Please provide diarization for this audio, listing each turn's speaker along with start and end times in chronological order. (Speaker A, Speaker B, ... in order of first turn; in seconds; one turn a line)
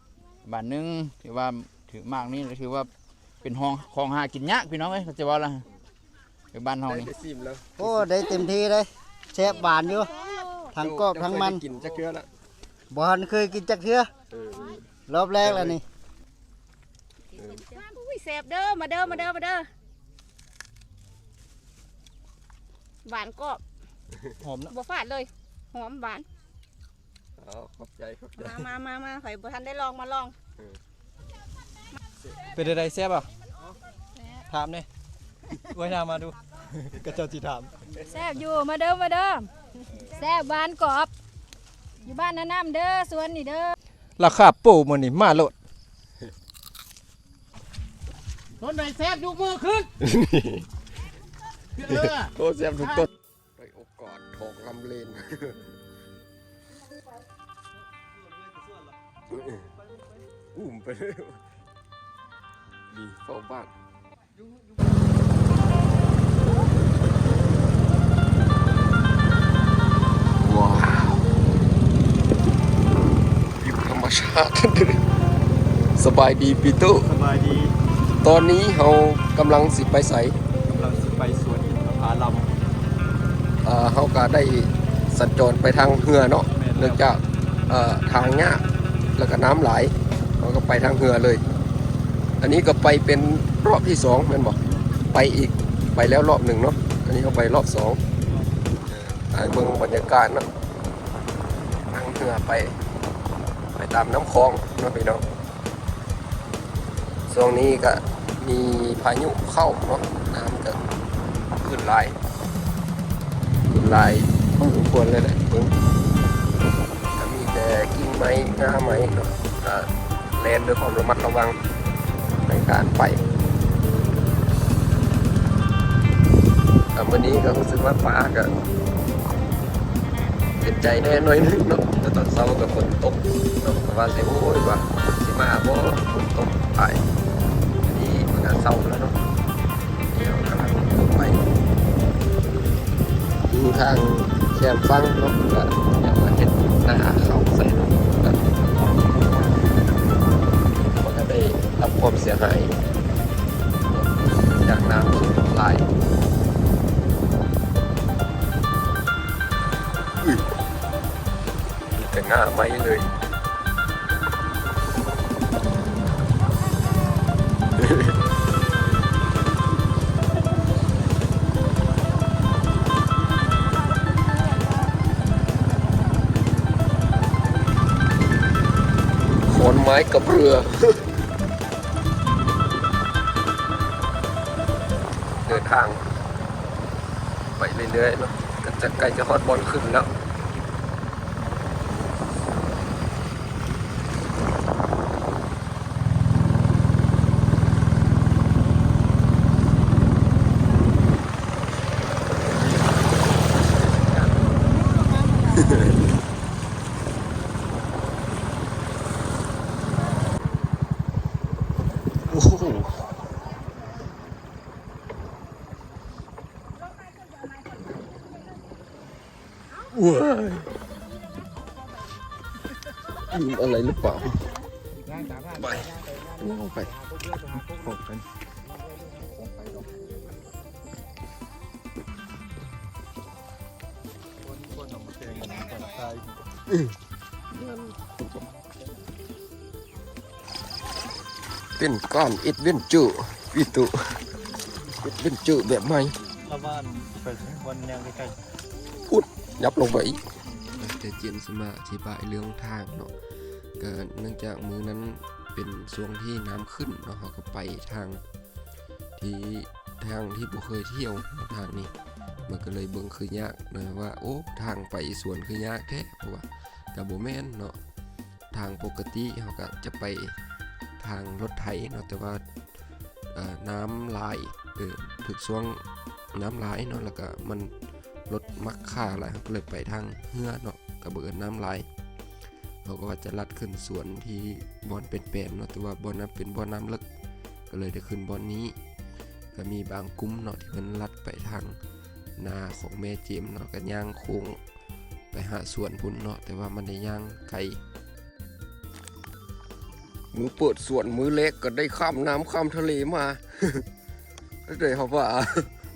Speaker A: 0.4-2.9
Speaker A: 3.4-5.6
Speaker A: 6.5-7.1
Speaker B: 6.9-8.2
Speaker C: 7.8-10.1
Speaker B: 9.4-9.7
Speaker D: 9.7-10.7
Speaker C: 10.7-11.6
Speaker B: 10.8-12.3
Speaker C: 12.9-14.1
Speaker B: 14.3-14.9
Speaker C: 15.1-15.8
Speaker B: 15.4-15.8
Speaker B: 17.3-17.7
Speaker D: 17.4-19.7
Speaker B: 19.0-19.3
Speaker D: 23.1-23.6
Speaker B: 24.1-24.4
Speaker E: 24.4-24.7
Speaker D: 24.7-26.2
Speaker B: 27.4-28.7
Speaker D: 28.4-30.4
Speaker E: 32.5-33.3
Speaker E: 34.5-34.9
Speaker E: 35.5-37.9
Speaker F: 38.0-41.1
Speaker F: 42.0-43.8
Speaker E: 44.2-45.5
Speaker A: 48.6-49.9
Speaker B: 50.0-50.7
Speaker A: 51.8-52.3
Speaker B: 51.8-55.8
Speaker B: 60.5-61.4
Speaker B: 62.9-63.7
Speaker B: 70.4-71.3
Speaker B: 73.6-75.0
Speaker B: 76.0-77.1
Speaker E: 77.0-77.8
Speaker B: 78.2-80.4
Speaker E: 80.7-82.5
Speaker B: 83.6-91.4
Speaker E: 86.5-87.1
Speaker B: 92.4-98.0
Speaker B: 98.8-100.5
Speaker B: 101.9-102.8
Speaker B: 103.8-105.2
Speaker B: 107.3-110.8
Speaker B: 111.5-112.2
Speaker B: 113.7-115.7
Speaker B: 117.2-121.6
Speaker B: 122.4-123.2
Speaker B: 126.9-128.5
Speaker B: 130.6-137.0
Speaker B: 137.8-139.2
Speaker B: 140.1-141.4
Speaker B: 143.5-149.5
Speaker B: 150.9-152.8
Speaker B: 153.9-155.9
Speaker B: 161.9-163.1
Speaker B: 167.8-168.1
Speaker B: 179.5-181.0
Speaker B: 185.5-186.0
Speaker B: 187.6-190.1
Speaker B: 203.8-204.2
Speaker B: 205.5-205.8
Speaker B: 212.3-213.0
Speaker B: 219.9-220.7
Speaker B: 223.3-224.5
Speaker B: 225.4-227.4
Speaker E: 227.6-228.2
Speaker B: 229.1-230.4
Speaker E: 234.4-236.5
Speaker B: 237.5-238.4
Speaker B: 241.8-244.2
Speaker B: 245.0-246.2
Speaker E: 246.5-248.4
Speaker B: 249.0-253.1
Speaker B: 253.8-258.2
Speaker B: 259.2-261.9
Speaker B: 262.5-267.8
Speaker B: 268.5-270.4
Speaker B: 271.0-272.4
Speaker B: 273.3-275.8
Speaker B: 276.3-277.7
Speaker B: 278.3-281.9
Speaker B: 282.8-287.0
Speaker B: 287.7-288.8
Speaker B: 289.5-291.8
Speaker B: 292.4-294.6
Speaker B: 295.3-297.8
Speaker B: 300.3-303.9
Speaker B: 304.6-305.7